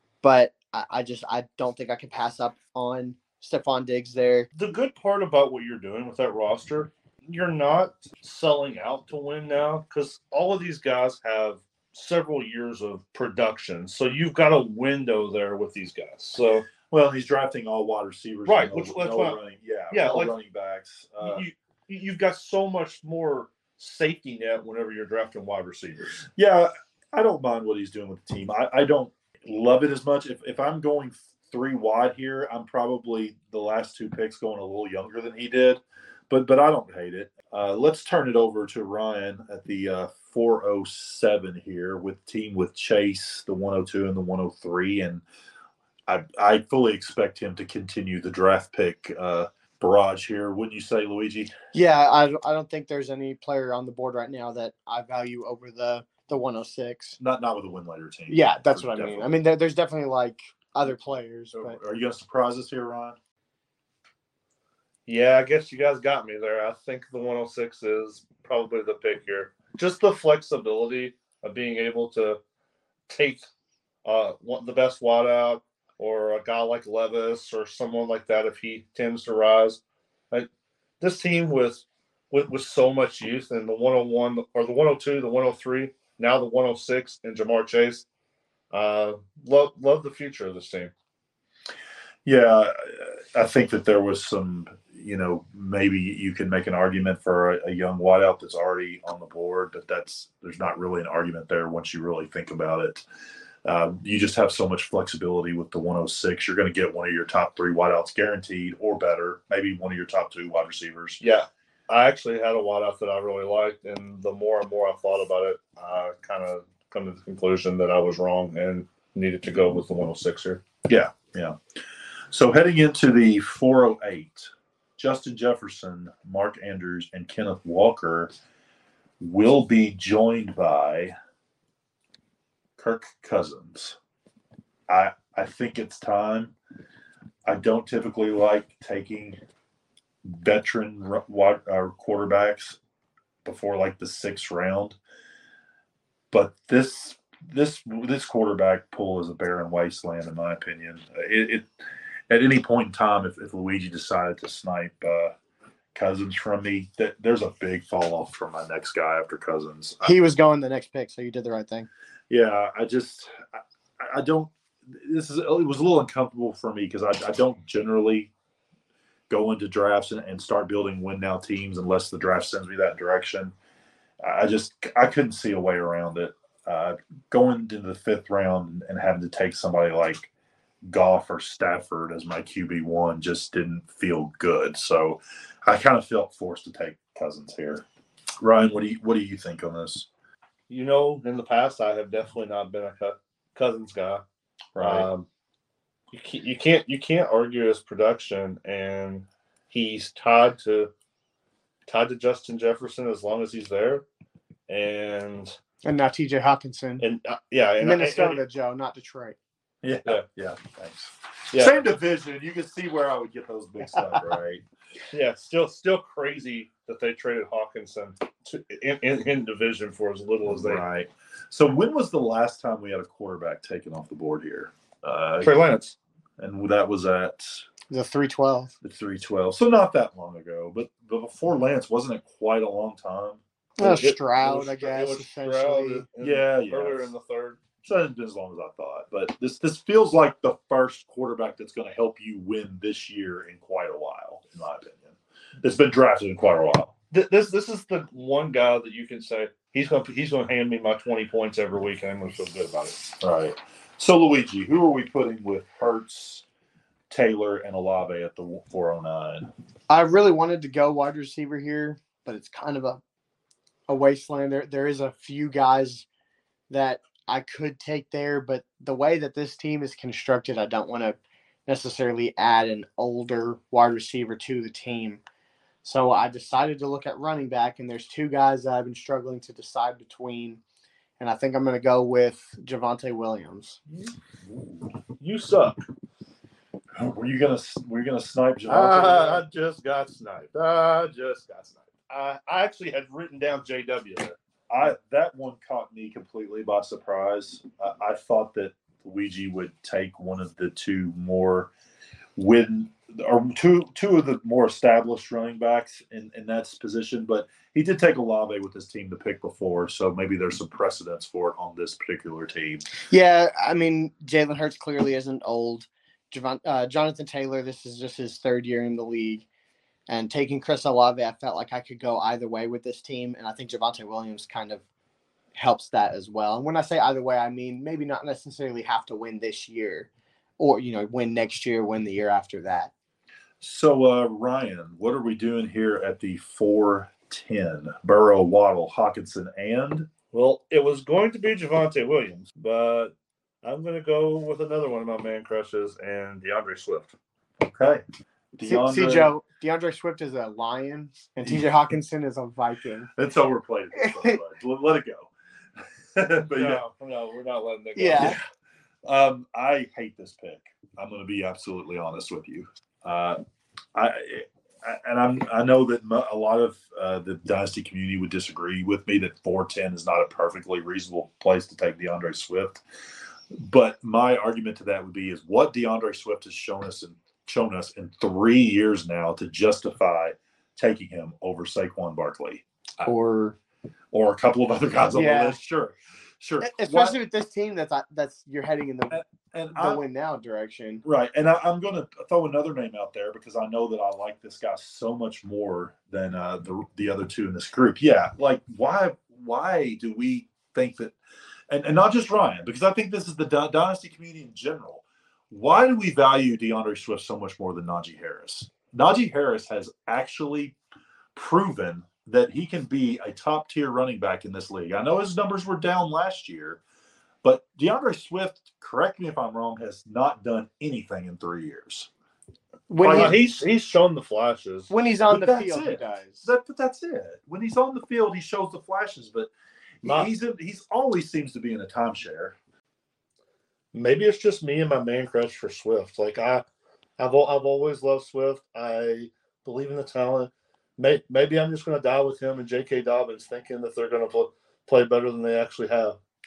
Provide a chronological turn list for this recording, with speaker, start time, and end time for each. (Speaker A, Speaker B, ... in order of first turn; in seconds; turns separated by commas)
Speaker A: 0.2-4.5, Speaker B: 4.6-16.7, Speaker C: 16.9-21.4, Speaker B: 18.5-19.4, Speaker B: 19.9-20.3, Speaker B: 21.2-26.2, Speaker C: 26.4-45.2, Speaker C: 46.1-51.6, Speaker A: 51.7-57.2, Speaker C: 57.2-59.3, Speaker A: 58.3-61.8, Speaker C: 61.5-63.2, Speaker B: 65.1-72.4, Speaker B: 73.1-73.5, Speaker B: 74.0-80.5, Speaker B: 81.0-88.0, Speaker B: 88.7-90.9, Speaker C: 92.2-103.0, Speaker C: 103.7-111.2, Speaker B: 111.2-120.6, Speaker C: 120.9-121.6, Speaker C: 122.3-128.3, Speaker C: 129.2-131.1, Speaker C: 132.8-134.0, Speaker C: 134.9-136.5, Speaker C: 137.5-139.4, Speaker C: 140.2-142.8, Speaker C: 143.4-145.0, Speaker C: 146.3-151.7, Speaker C: 152.3-155.4, Speaker C: 155.9-160.2, Speaker A: 160.0-161.9, Speaker C: 162.3-168.3, Speaker C: 169.3-173.5, Speaker C: 174.2-180.3, Speaker C: 180.9-187.9, Speaker C: 188.4-190.1, Speaker B: 190.7-194.2, Speaker C: 194.8-195.1, Speaker B: 194.8-195.3, Speaker B: 196.1-200.9, Speaker B: 201.9-204.1, Speaker B: 204.7-205.6, Speaker A: 205.8-207.1, Speaker B: 207.0-208.4, Speaker A: 207.8-209.4, Speaker C: 209.8-214.6, Speaker B: 211.5-211.8, Speaker B: 215.1-220.8, Speaker C: 220.5-225.5, Speaker B: 225.4-226.0, Speaker C: 226.4-227.7, Speaker A: 227.9-228.7, Speaker C: 228.8-233.4, Speaker A: 233.8-236.1, Speaker B: 233.8-237.6, Speaker C: 236.2-237.1, Speaker C: 237.8-246.9, Speaker B: 247.1-253.0, Speaker C: 253.2-256.4, Speaker C: 257.1-259.5, Speaker A: 259.9-263.0, Speaker A: 263.9-266.1, Speaker A: 266.7-275.2, Speaker A: 275.8-280.6, Speaker A: 281.2-283.8, Speaker B: 285.2-285.9, Speaker C: 287.0-289.4, Speaker B: 288.7-294.4, Speaker C: 294.7-301.7, Speaker C: 302.4-312.9, Speaker A: 313.1-319.5, Speaker A: 320.1-324.8, Speaker A: 325.6-332.9, Speaker C: 333.6-340.1, Speaker B: 340.3-347.1, Speaker C: 347.7-348.0, Speaker C: 348.5-349.3, Speaker A: 348.6-353.1, Speaker C: 351.4-351.7, Speaker C: 353.2-355.3, Speaker A: 353.9-354.4, Speaker C: 356.1-356.8, Speaker B: 356.6-358.4, Speaker A: 358.0-358.4, Speaker C: 359.1-363.4, Speaker C: 363.9-372.8, Speaker C: 373.5-383.1, Speaker A: 383.1-383.6, Speaker C: 384.1-387.2, Speaker A: 385.1-385.6, Speaker A: 386.6-389.2, Speaker C: 389.1-390.0, Speaker A: 389.7-391.0, Speaker C: 391.0-401.1, Speaker C: 401.7-410.8, Speaker C: 411.4-416.8, Speaker C: 417.4-422.1, Speaker A: 422.9-423.4, Speaker C: 423.0-423.4, Speaker B: 423.1-424.9, Speaker A: 424.9-426.5, Speaker C: 425.3-429.5, Speaker C: 430.0-432.6, Speaker B: 430.1-430.3, Speaker B: 433.9-436.6, Speaker B: 437.2-446.2